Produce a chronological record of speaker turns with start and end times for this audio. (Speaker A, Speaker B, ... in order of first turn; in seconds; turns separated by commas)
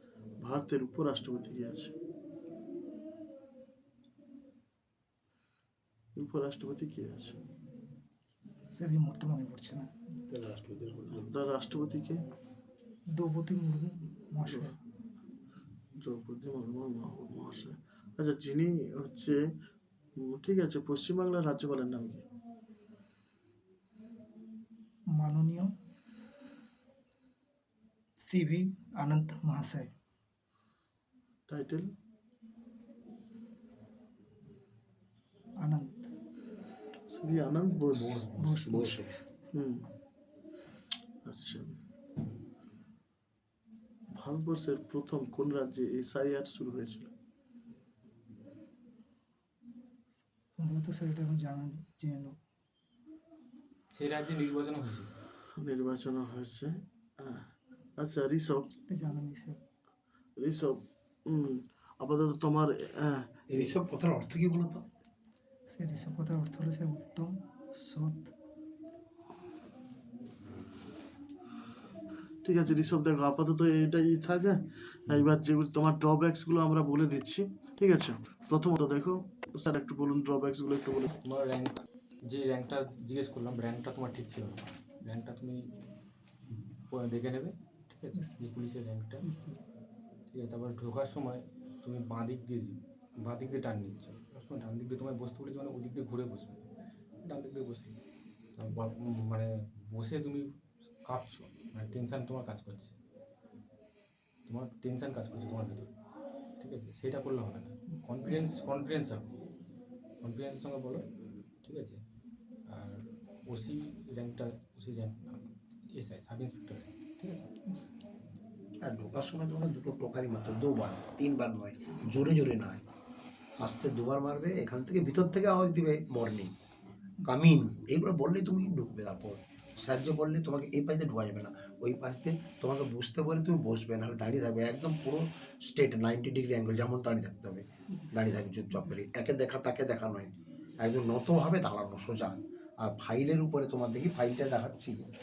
Speaker A: 0.4-1.9, Speaker A: 6.2-7.4, Speaker B: 8.7-9.9, Speaker C: 10.3-11.3, Speaker A: 11.1-12.2, Speaker B: 13.1-14.8, Speaker A: 14.5-14.7, Speaker A: 16.0-19.4, Speaker A: 20.2-22.2, Speaker B: 25.1-25.7, Speaker B: 28.2-29.9, Speaker A: 31.5-31.9, Speaker B: 35.6-36.1, Speaker A: 37.1-38.2, Speaker D: 37.9-38.6, Speaker B: 38.3-39.2, Speaker C: 38.5-39.2, Speaker A: 39.5-39.9, Speaker A: 41.2-41.7, Speaker A: 44.1-47.1, Speaker B: 50.6-52.4, Speaker D: 53.9-55.1, Speaker A: 55.6-58.7, Speaker B: 58.8-59.6, Speaker A: 60.4-63.5, Speaker C: 63.5-64.8, Speaker B: 65.7-68.3, Speaker A: 72.4-81.2, Speaker D: 81.2-85.6, Speaker D: 86.9-89.2, Speaker B: 88.2-88.4, Speaker B: 89.2-89.6, Speaker D: 90.3-96.6, Speaker D: 97.2-98.0, Speaker D: 98.6-100.5, Speaker D: 101.0-103.0, Speaker D: 104.5-105.9, Speaker D: 106.6-109.3, Speaker B: 108.3-108.5, Speaker D: 110.2-111.0, Speaker D: 111.6-112.0, Speaker D: 112.7-117.5, Speaker C: 118.8-122.8, Speaker C: 123.6-126.5, Speaker C: 127.2-140.3, Speaker C: 140.8-145.0